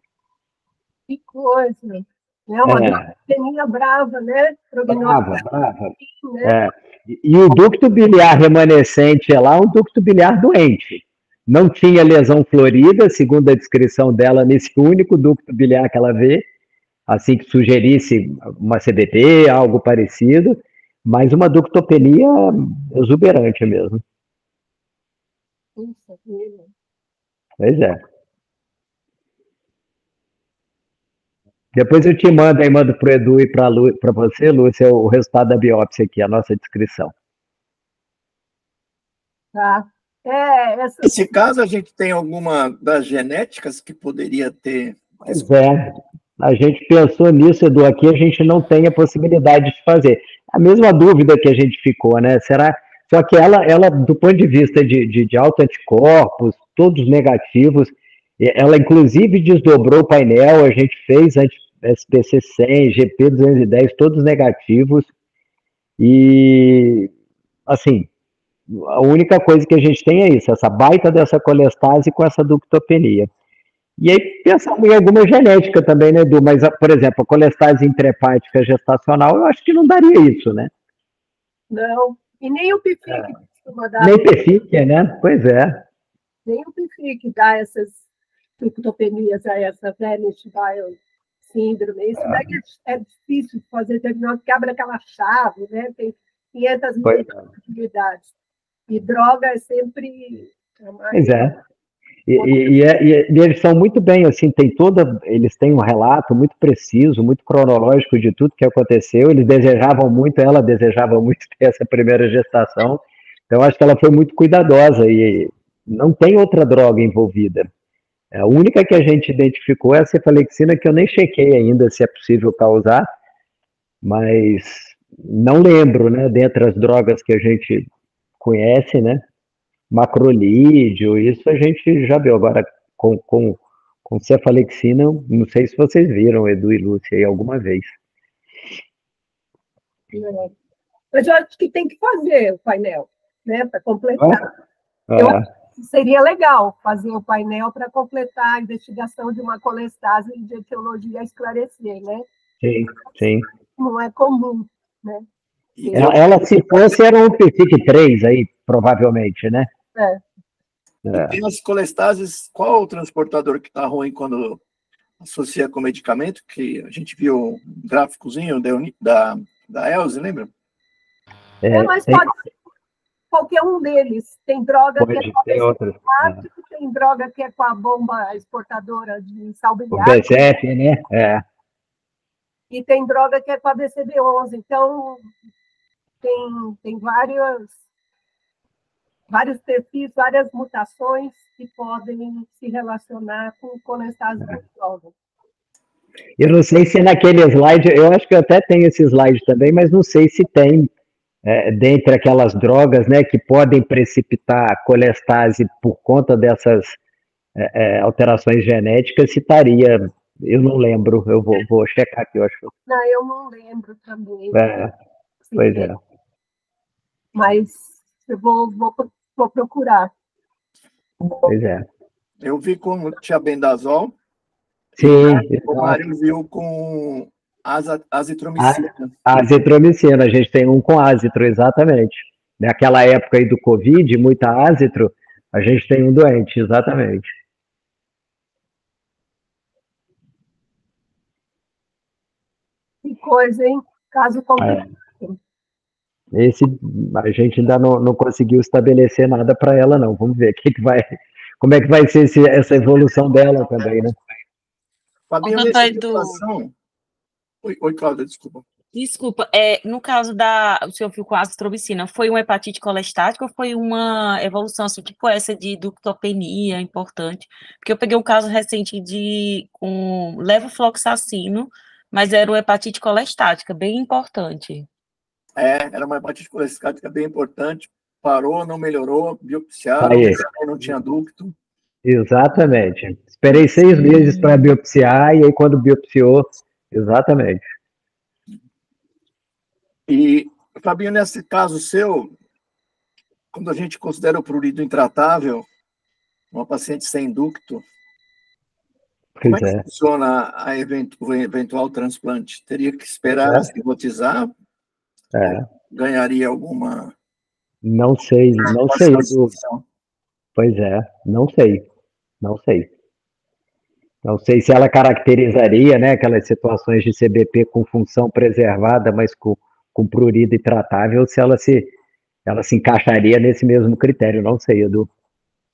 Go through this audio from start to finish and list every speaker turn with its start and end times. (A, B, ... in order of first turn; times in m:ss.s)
0:01.1-0:05.4 A
0:02.6-0:03.1 B
0:04.9-0:16.4 B
0:06.0-0:06.6 A
0:17.1-0:24.0 B
0:25.8-0:26.7 A
0:27.6-0:28.0 B
0:31.7-0:37.1 B
0:39.5-0:41.1 A
0:41.0-0:45.4 C
0:45.3-0:45.8 B
0:46.4-1:05.1 B
1:06.0-1:07.1 B
1:07.7-1:08.1 B
1:08.7-1:13.3 B
1:14.0-1:20.7 B
1:21.7-1:24.3 A
1:24.0-1:25.8 B
1:26.4-1:28.0 A
1:28.6-1:38.3 A
1:37.0-1:37.4 B
1:38.9-1:41.5 A
1:41.1-1:41.6 B
1:42.3-1:57.7 B
1:42.4-1:42.7 A
1:58.3-2:03.1 B
2:04.0-2:07.9 B
2:08.4-2:09.2 B
2:09.9-2:17.9 B
2:20.1-2:20.5 A
2:21.1-2:24.5 A
2:25.1-2:25.4 B
2:25.2-2:32.2 A
2:32.6-2:33.5 B
2:33.8-2:35.2 A
2:35.8-2:36.7 C
2:35.8-2:36.2 A
2:35.9-2:39.7 B
2:40.0-2:40.2 A
2:41.1-2:41.4 B
2:41.1-2:44.6 C
2:45.2-2:50.5 C
2:51.6-2:52.2 B
2:51.7-2:52.4 A
2:53.3-3:00.5 A
2:55.0-2:56.4 B
2:59.9-3:01.4 B
3:02.7-3:05.3 A
3:06.2-3:07.8 A
3:09.3-3:15.1 A
3:16.4-3:20.9 B
3:21.4-3:27.0 B
3:27.6-3:32.7 B
3:32.9-3:34.6 A
3:34.5-3:34.9 B
3:35.5-3:35.9 A
3:35.5-3:36.0 B
3:37.3-3:40.1 A
3:41.4-3:41.8 B
3:42.4-3:44.1 C
3:45.0-3:49.1 C
3:45.0-3:46.0 B
3:48.6-3:57.3 B
4:03.0-4:05.4 A
4:06.3-4:14.1 B
4:15.3-4:16.7 C
4:15.4-4:16.4 D
4:17.6-4:18.6 C
4:18.9-4:34.9 D
4:35.6-4:41.5 C
4:40.0-4:40.4 B
4:42.0-4:47.7 B
4:43.5-4:44.7 D
4:50.1-4:52.3 C
4:53.5-4:55.6 C
4:56.5-4:57.8 C
4:59.4-4:59.8 B
4:59.4-5:04.5 C
5:03.4-5:03.7 B
5:05.3-5:05.6 B
5:05.4-5:07.1 C
5:07.8-5:09.6 B
5:08.6-5:09.8 C
5:10.6-5:11.8 B
5:12.4-5:12.9 B
5:14.2-5:21.9 B
5:22.4-5:25.1 B